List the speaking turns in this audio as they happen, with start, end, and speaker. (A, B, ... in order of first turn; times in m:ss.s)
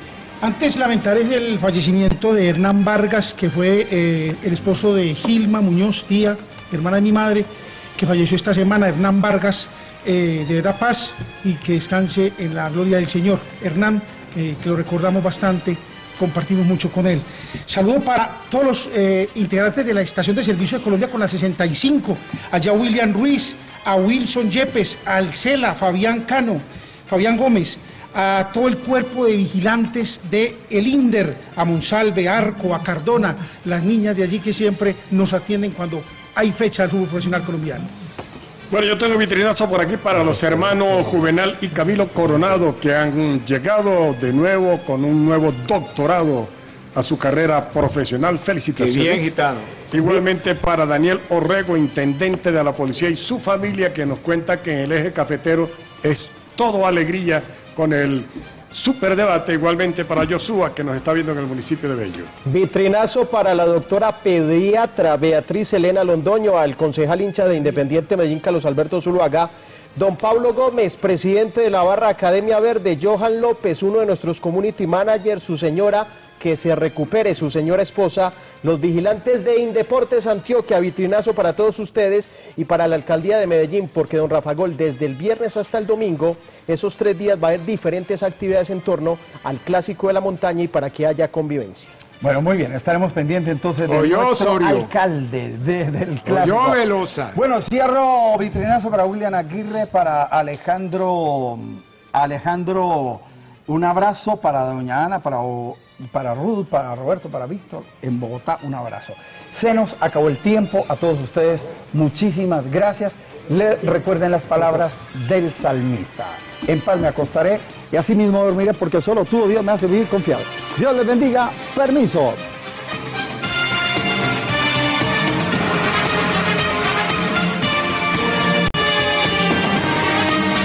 0:00.4-0:37.9 A
0:38.7-0:49.3 B
0:48.8-0:49.7 C
0:49.9-1:02.3 B
1:02.5-1:31.9 D
1:32.2-1:36.8 E
1:33.8-1:34.9 C
1:36.3-1:37.4 C
1:37.3-2:02.4 E